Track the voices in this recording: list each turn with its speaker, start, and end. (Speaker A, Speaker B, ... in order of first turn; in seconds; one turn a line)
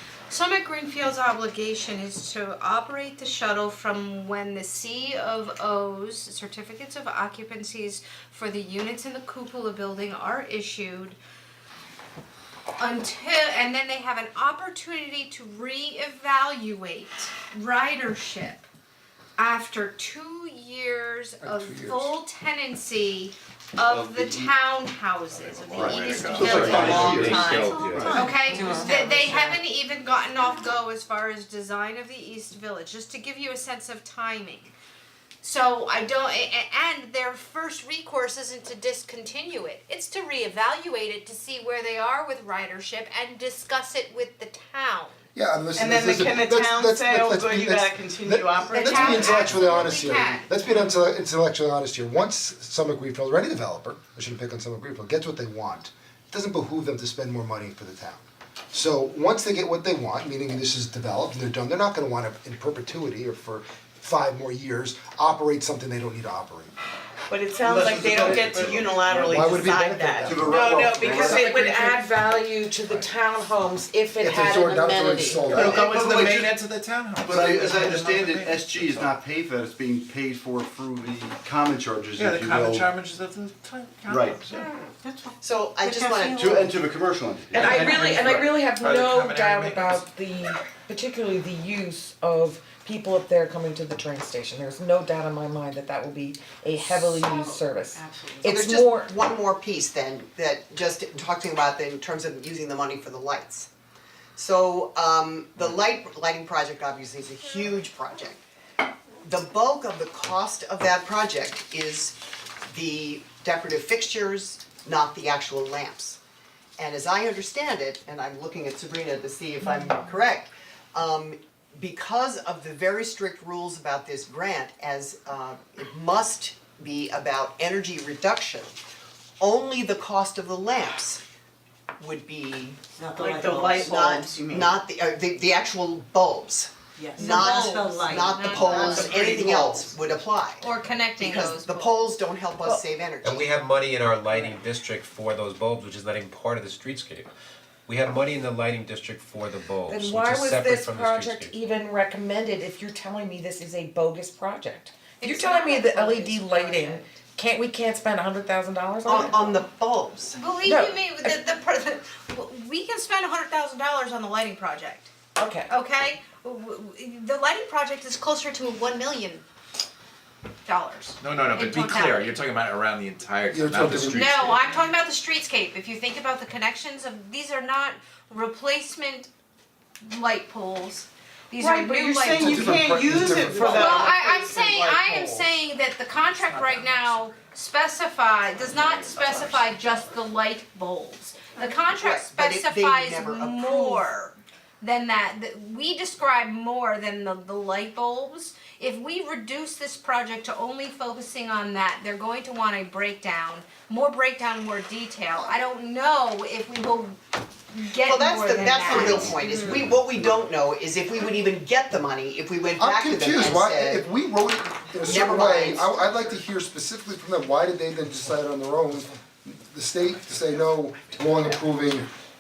Speaker A: 0.3-11.2
Speaker A: 12.8-18.7
Speaker A: 19.4-34.7
Speaker B: 21.4-22.1
Speaker C: 23.9-24.5
Speaker D: 25.5-27.3
Speaker C: 25.7-28.2
Speaker B: 26.6-27.2
Speaker E: 26.9-27.8
Speaker F: 27.6-29.0
Speaker A: 35.4-45.2
Speaker B: 45.4-66.7
Speaker G: 45.8-49.5
Speaker A: 48.7-50.6
Speaker G: 67.3-72.0
Speaker C: 67.6-69.5
Speaker B: 68.2-71.7
Speaker D: 68.5-69.0
Speaker C: 70.2-71.6
Speaker H: 70.8-75.8
Speaker B: 74.2-76.3
Speaker D: 75.5-79.2
Speaker C: 75.7-76.6
Speaker C: 77.2-82.9
Speaker D: 82.2-84.7
Speaker C: 84.1-84.5
Speaker I: 85.4-86.8
Speaker F: 85.8-86.5
Speaker C: 86.3-88.5
Speaker D: 87.5-90.1
Speaker H: 87.5-99.2
Speaker G: 97.0-98.5
Speaker I: 98.4-103.7
Speaker I: 104.3-108.4
Speaker I: 109.2-116.2
Speaker I: 116.8-128.8
Speaker I: 129.4-131.2
Speaker I: 132.0-132.8
Speaker F: 133.0-133.8
Speaker G: 133.2-134.8
Speaker I: 133.6-143.5
Speaker G: 137.0-137.2
Speaker F: 137.2-139.0
Speaker A: 137.3-139.2
Speaker G: 138.9-140.0
Speaker A: 140.6-142.0
Speaker E: 143.2-147.3
Speaker E: 147.9-151.6
Speaker H: 149.9-159.5
Speaker A: 155.2-157.1
Speaker I: 159.1-160.4
Speaker A: 160.3-165.1
Speaker H: 160.6-161.3
Speaker H: 165.4-165.7
Speaker A: 165.7-169.4
Speaker A: 170.7-172.4
Speaker D: 171.2-174.8
Speaker B: 173.5-174.4
Speaker A: 174.1-179.3
Speaker A: 180.0-182.8
Speaker G: 181.6-185.3
Speaker H: 181.9-182.5
Speaker B: 182.3-184.2
Speaker A: 183.7-207.2
Speaker D: 186.5-187.2
Speaker D: 188.8-189.6
Speaker I: 191.9-194.1
Speaker A: 207.7-209.6
Speaker I: 208.0-214.1
Speaker C: 208.9-209.8
Speaker B: 212.8-222.1
Speaker I: 215.0-216.4